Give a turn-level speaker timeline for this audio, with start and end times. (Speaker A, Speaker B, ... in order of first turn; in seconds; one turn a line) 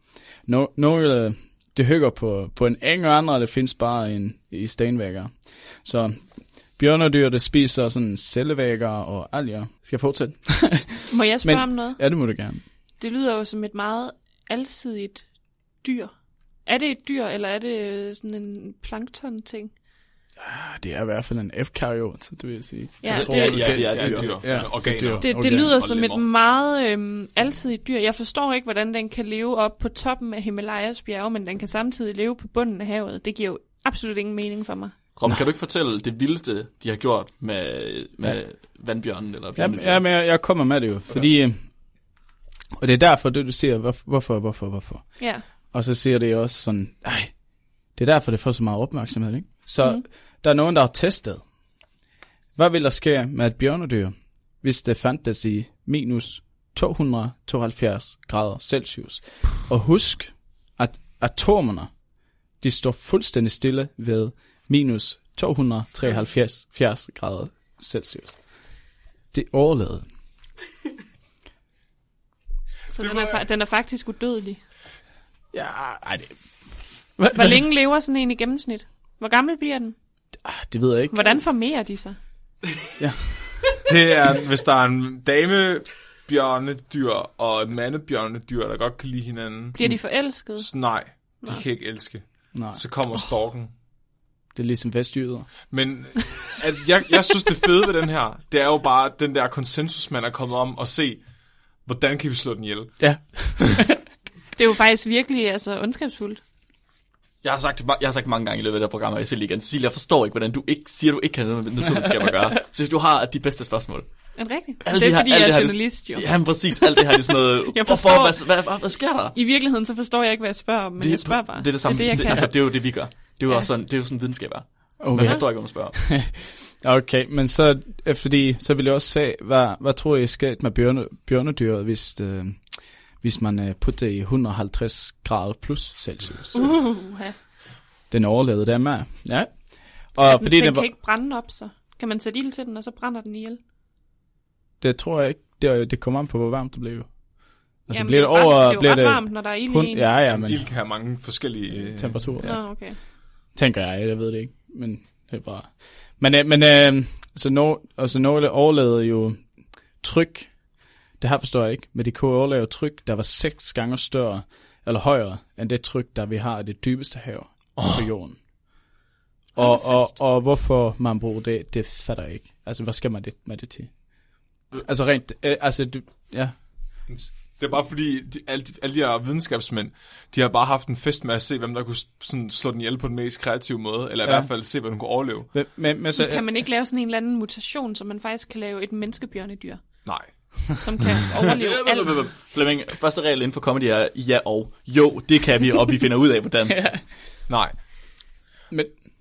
Speaker A: 0.5-12.6
Speaker B: 11.1-12.0
Speaker B: 13.0-15.3
Speaker B: 15.8-16.1
Speaker B: 16.7-19.7
Speaker A: 20.4-25.8
Speaker B: 23.0-23.8
Speaker C: 23.1-24.7
Speaker D: 23.3-26.2
Speaker B: 25.2-35.0
Speaker C: 35.1-40.0
Speaker A: 39.5-41.6
Speaker A: 42.8-47.4
Speaker B: 45.2-45.4
Speaker A: 48.0-51.4
Speaker A: 52.6-61.9
Speaker A: 62.6-68.4
Speaker A: 69.3-70.1
Speaker B: 72.9-74.6
Speaker D: 73.0-73.3
Speaker A: 75.5-76.4
Speaker A: 77.2-77.6
Speaker B: 77.3-80.0
Speaker A: 80.4-81.4
Speaker B: 81.1-82.2
Speaker A: 83.0-83.7
Speaker D: 83.9-93.7
Speaker B: 89.8-91.6
Speaker A: 92.5-92.8
Speaker A: 94.5-95.5
Speaker D: 95.7-101.3
Speaker D: 101.8-103.6
Speaker A: 103.0-104.0
Speaker B: 104.6-106.4
Speaker C: 107.4-119.4
Speaker B: 114.4-118.7
Speaker B: 119.3-123.0
Speaker C: 121.0-126.0
Speaker A: 125.0-132.7
Speaker B: 125.2-125.5
Speaker A: 133.2-136.7
Speaker B: 136.6-137.3
Speaker A: 138.1-140.9
Speaker B: 140.2-143.6
Speaker A: 144.8-147.1
Speaker A: 147.8-150.7
Speaker B: 147.9-150.1
Speaker D: 150.3-152.6
Speaker A: 151.8-152.9
Speaker B: 152.4-153.0
Speaker A: 153.6-159.4
Speaker A: 160.0-160.6
Speaker A: 161.2-168.4
Speaker D: 167.8-168.0
Speaker A: 169.6-176.6
Speaker B: 169.6-170.2
Speaker D: 177.1-185.5
Speaker A: 184.2-184.5
Speaker A: 185.5-186.5
Speaker B: 186.2-190.1
Speaker D: 190.0-190.8
Speaker B: 190.8-192.2
Speaker C: 191.5-196.9
Speaker D: 197.5-197.7